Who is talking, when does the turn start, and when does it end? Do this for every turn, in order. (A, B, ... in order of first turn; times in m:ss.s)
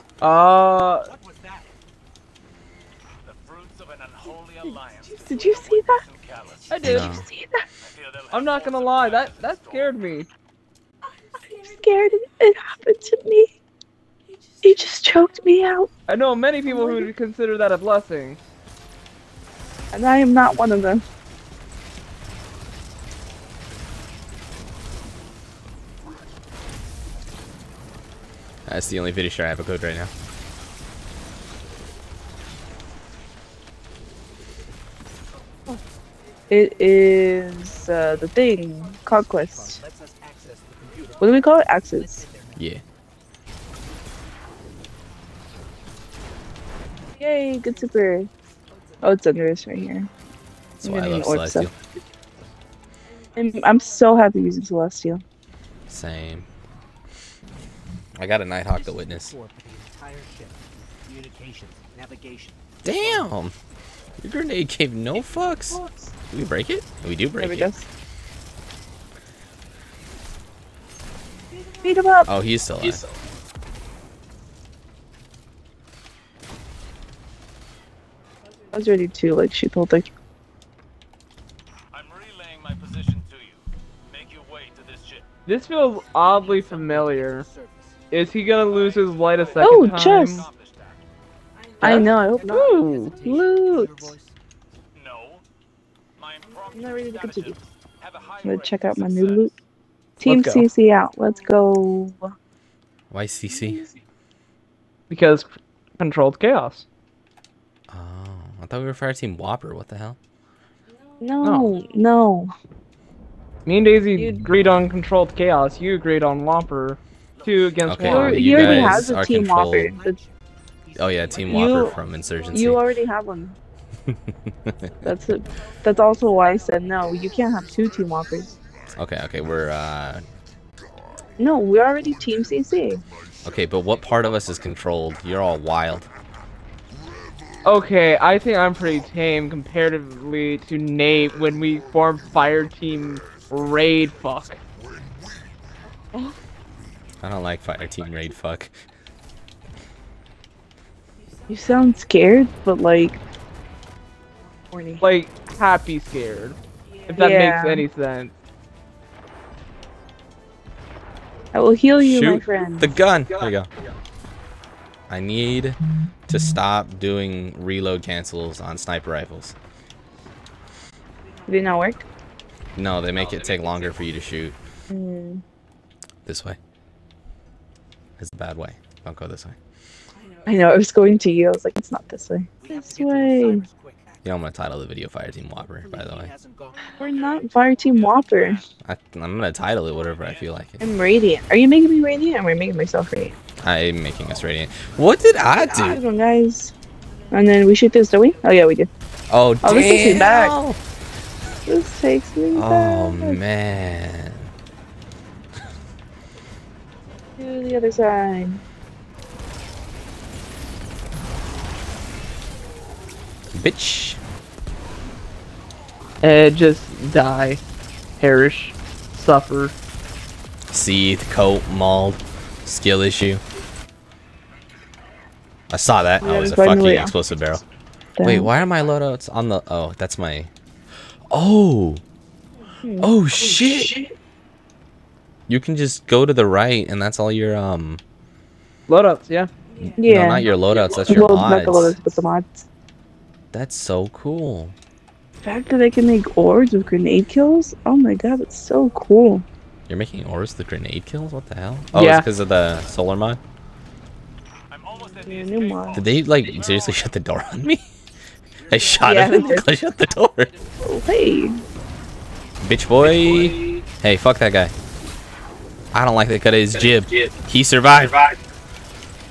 0:00.2-0:01.1 A
0:00.6-0:01.7 B
0:03.3-0:05.4 C
0:05.0-0:06.0 D
0:06.0-0:06.7 C
0:06.7-0:07.1 A
0:06.8-0:07.6 D
0:06.8-0:07.2 E
0:08.3-0:10.3 A
0:09.0-0:09.3 C
0:11.4-0:13.5 D
0:14.6-0:15.9 D
0:16.1-0:18.4 A
0:16.6-0:17.1 D
0:19.9-0:21.0 D
0:28.7-0:30.1 E
0:36.5-0:39.8 D
0:39.1-0:42.7 B
0:41.2-0:42.3 D
0:42.6-0:42.8 E
0:47.2-0:48.3 D
0:49.0-0:50.1 D
0:50.8-0:51.7 D
0:50.8-0:51.7 E
0:53.4-0:55.2 D
0:55.9-0:56.5 E
0:58.2-0:59.3 E
0:58.7-1:03.2 B
1:02.8-1:03.5 E
1:04.2-1:05.8 E
1:06.3-1:07.7 E
1:07.4-1:07.9 D
1:11.8-1:12.3 D
1:12.3-1:13.0 E
1:18.7-1:20.1 D
1:22.0-1:23.6 C
1:24.1-1:25.2 C
1:25.5-1:27.4 A
1:25.9-1:28.1 B
1:28.1-1:30.5 A
1:29.6-1:30.5 D
1:31.8-1:34.3 B
1:31.8-1:34.1 D
1:31.8-1:33.2 A
1:36.7-1:37.6 D
1:38.0-1:39.2 C
1:38.4-1:39.5 D
1:40.2-1:42.2 D
1:40.2-1:40.7 A
1:43.1-1:43.8 E
1:43.5-1:43.8 D
1:45.1-1:45.5 A
1:46.0-1:46.9 A
1:47.9-1:50.2 E
1:51.2-1:52.5 D
1:51.4-1:51.7 A
1:53.6-1:59.0 A
1:54.2-1:54.5 D
1:57.4-1:57.8 B
1:57.8-1:59.9 E
1:58.0-2:00.2 D
2:00.0-2:00.3 B
2:00.9-2:02.6 B
2:01.0-2:02.8 E
2:01.5-2:02.0 D
2:02.5-2:03.6 D
2:04.1-2:04.9 E
2:05.0-2:08.5 D
2:08.9-2:10.3 E
2:11.4-2:13.0 D
2:13.4-2:16.1 E
2:17.6-2:24.6 A
2:27.2-2:28.7 E
2:31.5-2:33.2 D
2:34.7-2:35.0 D
2:35.0-2:38.3 A
2:37.2-2:37.9 D
2:41.5-2:42.9 D
2:42.0-2:43.7 E
2:45.1-2:49.6 E
2:51.5-2:52.0 D
2:52.8-2:54.6 E
2:54.9-2:55.4 D
2:56.3-2:56.6 E
2:58.2-2:59.6 E
3:00.4-3:03.6 D
3:02.6-3:04.4 B
3:04.2-3:06.3 E
3:05.6-3:07.1 B
3:07.0-3:08.6 D
3:08.8-3:10.8 E
3:10.8-3:13.4 D
3:13.6-3:16.0 E
3:15.6-3:16.7 D
3:17.3-3:18.9 D
3:19.3-3:20.8 E
3:19.6-3:20.6 D
3:21.7-3:23.4 D
3:22.5-3:24.5 E
3:27.4-3:28.6 D
3:33.5-3:34.2 E
3:36.2-3:37.6 A
3:38.2-3:39.7 A
3:40.7-3:43.4 E
3:45.7-3:47.6 E
3:46.2-3:47.2 D
3:48.2-3:48.5 D
3:48.2-3:50.5 E
3:51.3-3:52.0 E
3:52.8-3:53.1 D
3:53.0-3:53.9 E
3:55.5-3:58.0 E
3:58.9-3:59.5 A
3:59.9-4:02.0 E
4:00.0-4:02.7 D
4:03.5-4:04.8 E
4:05.4-4:09.4 D
4:09.9-4:13.4 E
4:11.9-4:12.3 A
4:14.8-4:15.6 C
4:15.2-4:16.1 D
4:15.9-4:17.8 E
4:18.6-4:20.5 E
4:18.8-4:19.4 B
4:19.0-4:19.7 D
4:20.8-4:21.6 D
4:22.6-4:24.7 E
4:25.9-4:28.4 E